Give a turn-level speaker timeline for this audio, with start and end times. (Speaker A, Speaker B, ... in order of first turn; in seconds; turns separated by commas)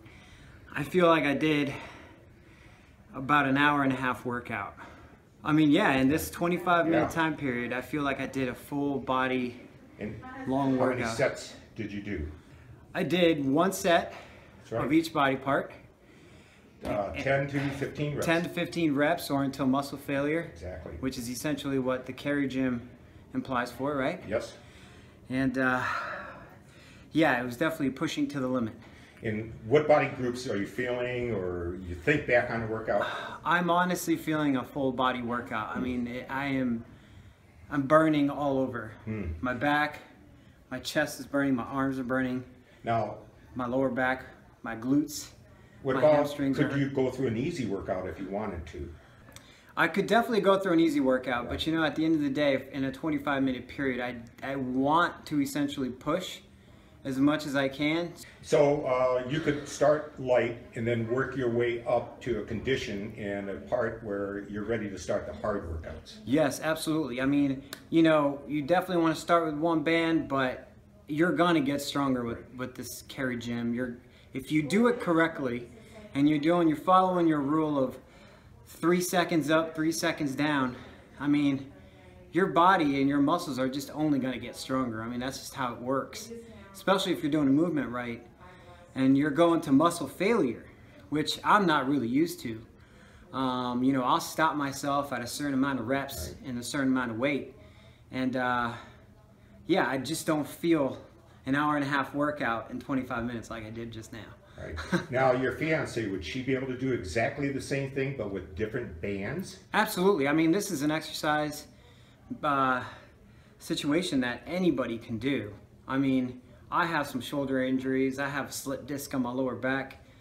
Speaker A: 0.7-1.8, Speaker A: 3.1-4.8, Speaker A: 5.4-9.6, Speaker B: 6.8-7.1, Speaker B: 10.0-12.3, Speaker A: 10.4-11.2, Speaker A: 12.9-14.2, Speaker B: 14.7-14.9, Speaker A: 14.8-15.8, Speaker B: 16.8-18.4, Speaker A: 16.9-17.3, Speaker A: 18.2-24.3, Speaker B: 20.5-21.0, Speaker B: 24.2-24.6, Speaker A: 25.3-26.4, Speaker A: 27.1-28.8, Speaker B: 29.2-33.1, Speaker A: 33.0-36.9, Speaker A: 37.7-40.0, Speaker B: 39.1-39.4, Speaker A: 40.7-42.5, Speaker B: 42.8-43.2, Speaker A: 43.5-45.4, Speaker B: 45.8-48.9, Speaker A: 45.9-46.9, Speaker A: 49.8-56.4, Speaker A: 57.0-58.2, Speaker B: 58.4-66.2, Speaker A: 66.2-78.0, Speaker A: 78.7-81.7, Speaker A: 82.3-88.3, Speaker A: 88.9-92.6, Speaker A: 93.3-97.5, Speaker A: 98.1-98.8, Speaker A: 99.7-105.0, Speaker B: 104.6-109.6, Speaker A: 109.7-111.7, Speaker A: 112.4-112.9, Speaker A: 113.6-120.0